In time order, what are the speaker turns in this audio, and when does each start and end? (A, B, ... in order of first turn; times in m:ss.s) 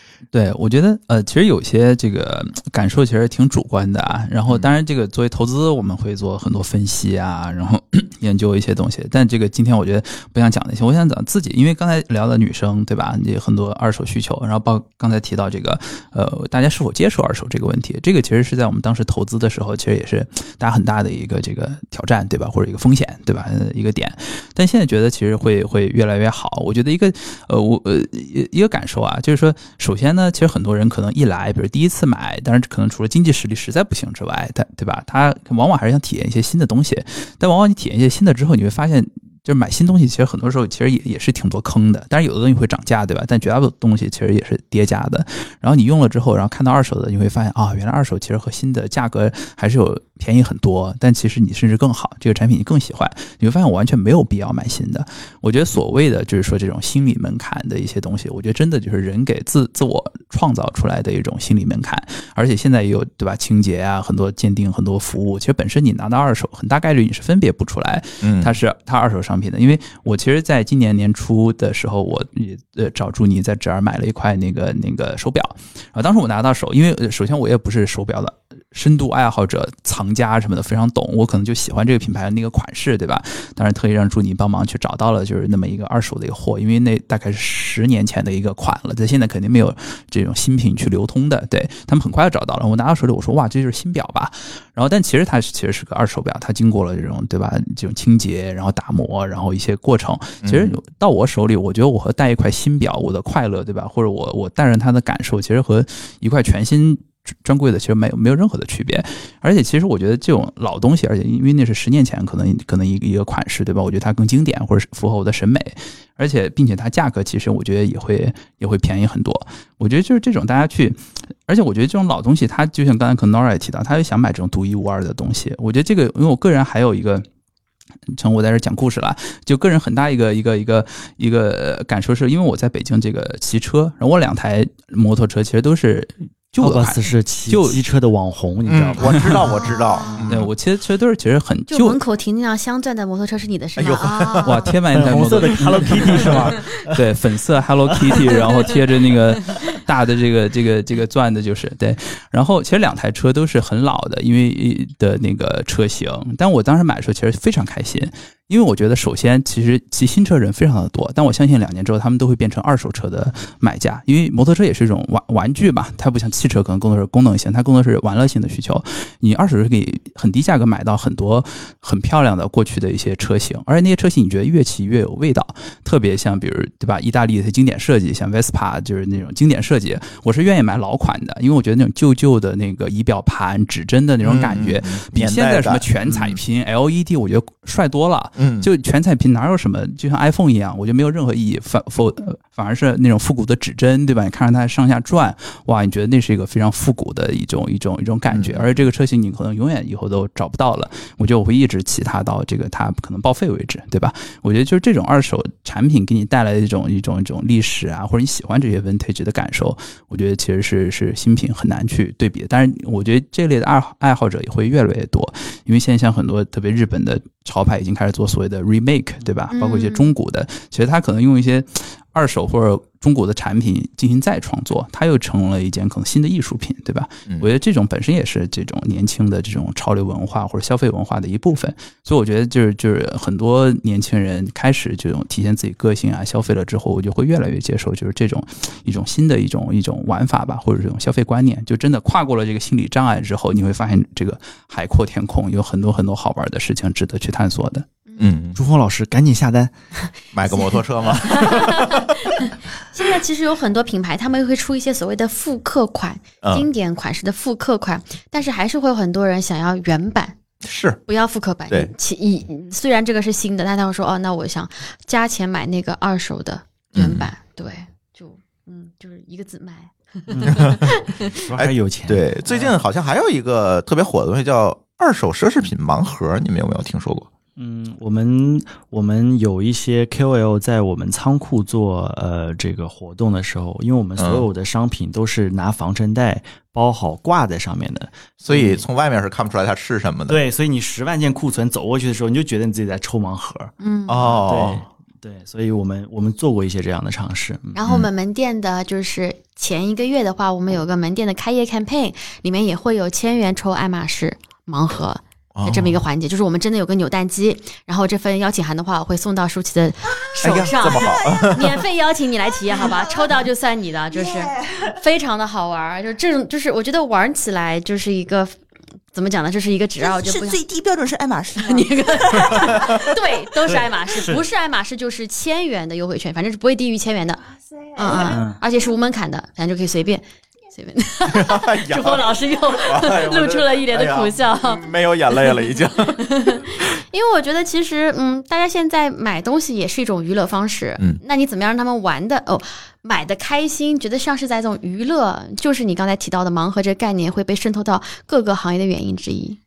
0:00.3-2:07.2 A
0:04.4-0:04.7 B
1:08.2-1:08.6 B
1:40.4-1:40.8 B
2:08.2-2:17.8 A
2:16.6-2:19.2 C
2:18.7-2:20.5 B
2:19.2-2:19.4 A
2:19.6-2:20.2 D
2:20.2-2:22.0 A
2:21.7-2:24.7 D
2:23.8-2:24.7 B
2:24.4-4:07.8 A
2:24.9-2:27.0 C
2:27.9-2:28.3 C
2:28.3-2:28.6 D
3:04.2-3:06.4 B
3:08.4-3:08.7 B
3:18.3-3:18.7 B
3:39.5-3:40.1 D
4:08.2-4:08.6 B
4:08.5-4:09.7 C
4:10.3-4:12.4 B
4:10.5-4:20.4 D
4:16.4-4:16.7 B
4:20.6-4:21.0 B
4:21.0-4:31.2 D
4:26.9-4:27.3 B
4:30.3-4:30.7 C
4:30.5-4:30.8 B
4:31.2-4:32.7 C
4:31.5-4:37.3 B
4:37.6-4:48.8 C
4:44.2-4:44.4 B
4:48.4-4:50.4 B
4:50.3-4:53.7 C
4:53.8-4:54.4 D
4:54.1-4:54.8 B
4:54.4-4:57.8 C
4:57.7-5:18.6 D
5:05.6-5:06.0 B
5:10.1-5:11.8 E
5:10.4-5:11.8 B
5:12.5-5:13.5 E
5:14.1-5:15.0 E
5:19.1-5:20.6 D
5:20.0-5:22.9 E
5:21.6-5:27.4 D
5:22.6-5:23.0 B
5:24.1-5:24.4 C
5:28.0-5:28.4 E
5:28.0-5:34.8 D
5:28.2-5:28.6 C
5:31.3-5:36.9 B
5:36.2-5:49.6 D